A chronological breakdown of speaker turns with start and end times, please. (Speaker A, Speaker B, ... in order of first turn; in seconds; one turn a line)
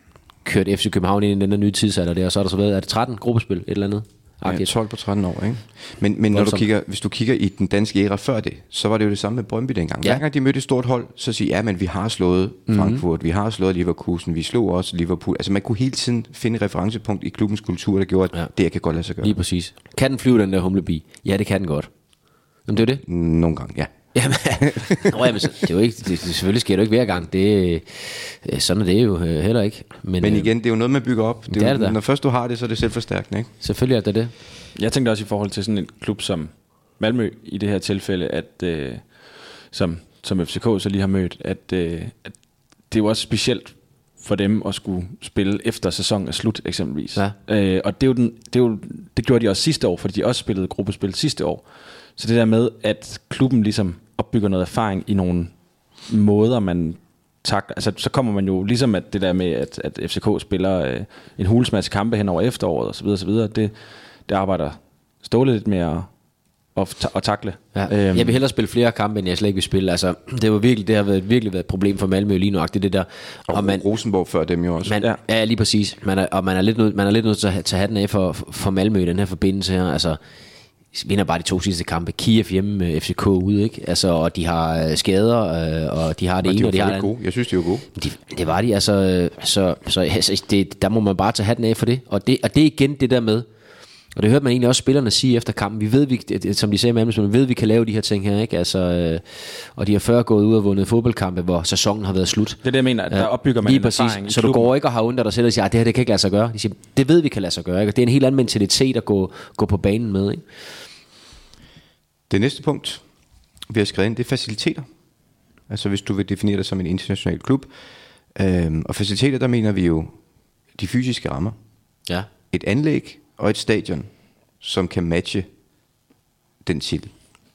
Speaker A: 0.5-4.7
Speaker B: 4.4-19.4
Speaker A: 6.3-6.7
Speaker A: 12.7-13.0
Speaker A: 19.2-21.9
Speaker A: 22.7-23.0
Speaker B: 23.0-23.9
Speaker A: 24.1-30.5
Speaker B: 24.5-25.5
Speaker B: 30.2-33.5
Speaker A: 31.5-32.0
Speaker A: 33.6-34.3
Speaker C: 34.8-42.4
Speaker C: 42.9-51.6
Speaker C: 52.2-55.5
Speaker C: 56.1-63.7
Speaker C: 64.3-66.1
Speaker C: 66.8-68.4
Speaker A: 67.8-73.8
Speaker B: 73.5-75.0
Speaker A: 74.8-80.2
Speaker A: 80.9-87.1
Speaker B: 86.4-87.9
Speaker A: 88.0-93.5
Speaker A: 94.2-110.4
Speaker C: 102.6-104.7
Speaker B: 112.3-113.0
Speaker B: 113.7-114.9
Speaker B: 115.7-117.7
Speaker B: 118.3-120.2
Speaker B: 120.8-121.6
Speaker B: 122.5-124.1
Speaker B: 124.6-125.5
Speaker B: 126.6-127.1